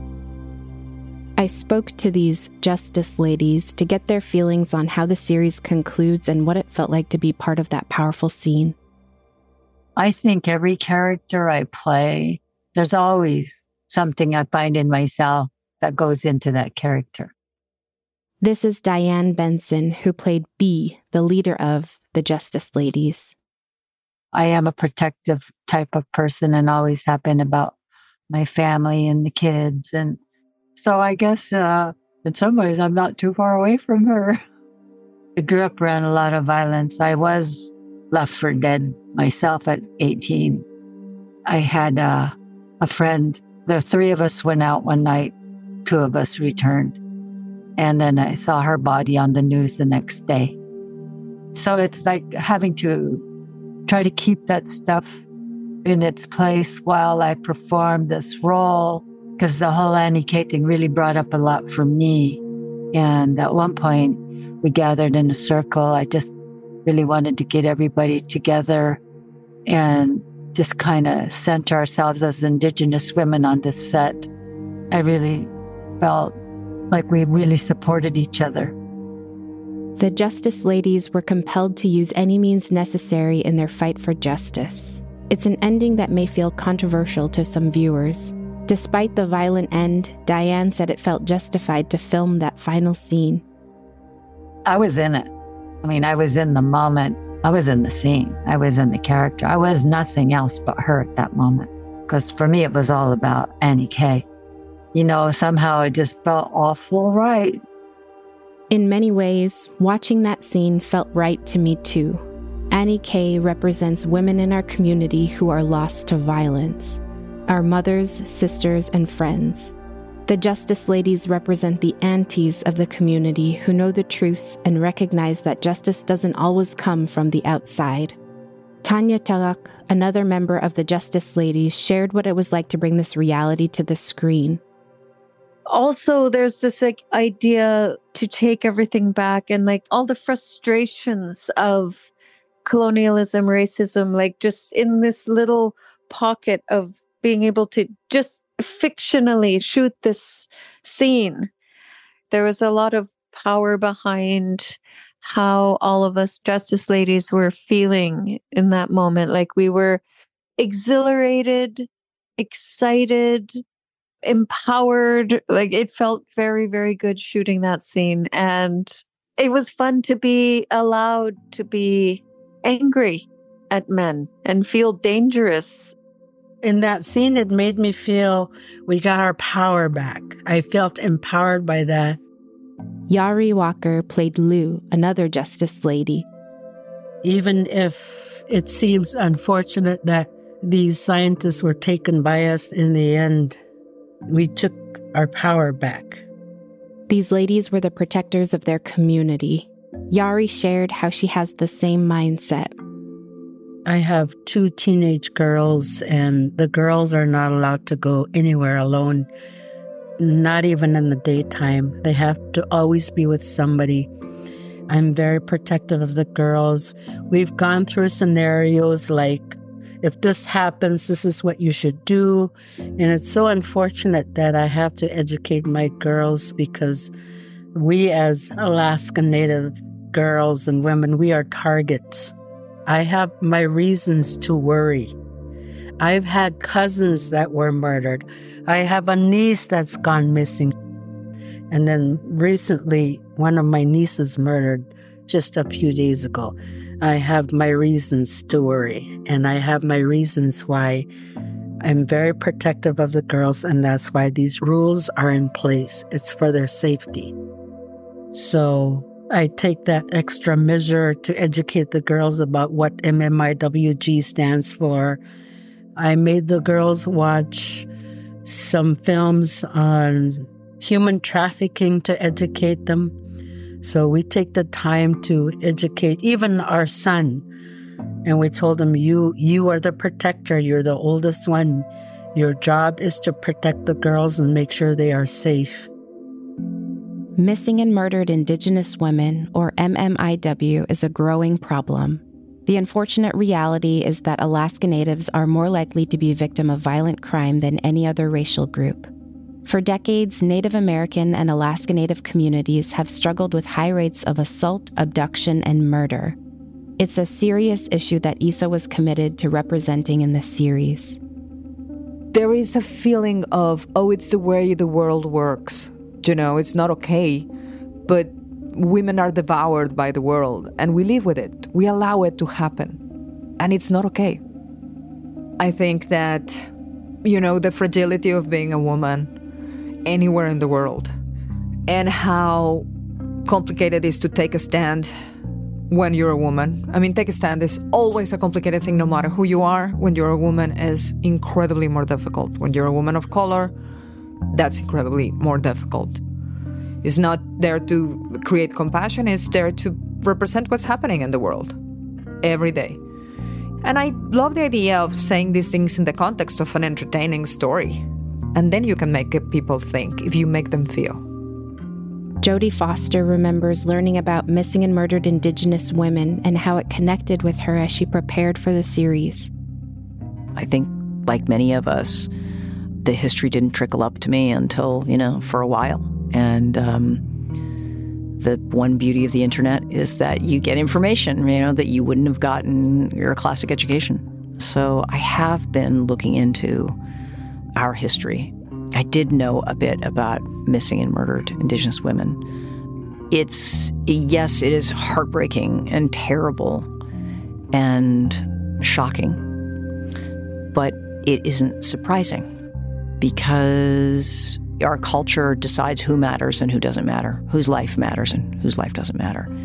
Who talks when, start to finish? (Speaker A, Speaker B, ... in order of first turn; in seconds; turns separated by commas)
Speaker A: 1.4-8.8, Speaker B: 9.9-17.3, Speaker A: 18.4-23.3, Speaker B: 24.3-27.7, Speaker B: 28.3-30.2, Speaker B: 30.8-34.4, Speaker B: 35.4-40.6, Speaker B: 41.5-45.3, Speaker B: 45.9-47.0, Speaker B: 47.8-50.5, Speaker B: 51.5-53.2, Speaker B: 53.9-55.0, Speaker B: 55.8-62.4, Speaker B: 62.9-66.3, Speaker B: 66.8-69.0, Speaker B: 69.7-74.3, Speaker B: 74.9-76.3, Speaker B: 76.9-78.7, Speaker A: 80.0-93.4, Speaker B: 94.7-95.3, Speaker B: 95.8-104.2, Speaker B: 104.9-107.6, Speaker A: 108.7-119.7, Speaker A: 120.3-128.2, Speaker A: 128.8-134.6, Speaker C: 135.7-142.1, Speaker C: 142.6-151.5, Speaker C: 152.3-160.0, Speaker C: 160.6-163.6, Speaker C: 164.2-175.9, Speaker D: 176.6-182.2, Speaker A: 183.1-186.3, Speaker D: 187.2-193.6, Speaker D: 194.3-196.2, Speaker A: 197.1-202.7, Speaker D: 203.8-209.3, Speaker D: 210.2-214.1, Speaker D: 214.9-227.1, Speaker D: 227.7-232.3, Speaker D: 232.8-235.1, Speaker D: 236.0-240.7, Speaker D: 241.7-251.1, Speaker D: 251.8-257.3, Speaker D: 258.3-265.2, Speaker D: 265.9-267.9, Speaker D: 268.4-273.1, Speaker D: 273.8-277.4, Speaker D: 278.2-285.9, Speaker A: 287.4-299.1, Speaker A: 299.6-306.4, Speaker A: 307.0-311.2, Speaker E: 312.3-317.5, Speaker E: 318.1-323.0, Speaker E: 323.6-324.4, Speaker E: 325.6-326.7, Speaker E: 327.2-329.3, Speaker E: 330.0-331.1, Speaker E: 331.9-332.9, Speaker E: 333.4-335.1, Speaker E: 335.9-343.7, Speaker E: 344.5-346.2, Speaker E: 347.0-351.8, Speaker E: 352.4-353.0, Speaker E: 353.8-361.2, Speaker A: 362.4-369.5, Speaker F: 370.5-372.3, Speaker F: 373.0-377.2, Speaker F: 378.4-386.9, Speaker F: 387.8-392.4, Speaker F: 393.3-396.9, Speaker F: 397.7-399.4, Speaker F: 400.7-402.5, Speaker F: 403.2-409.5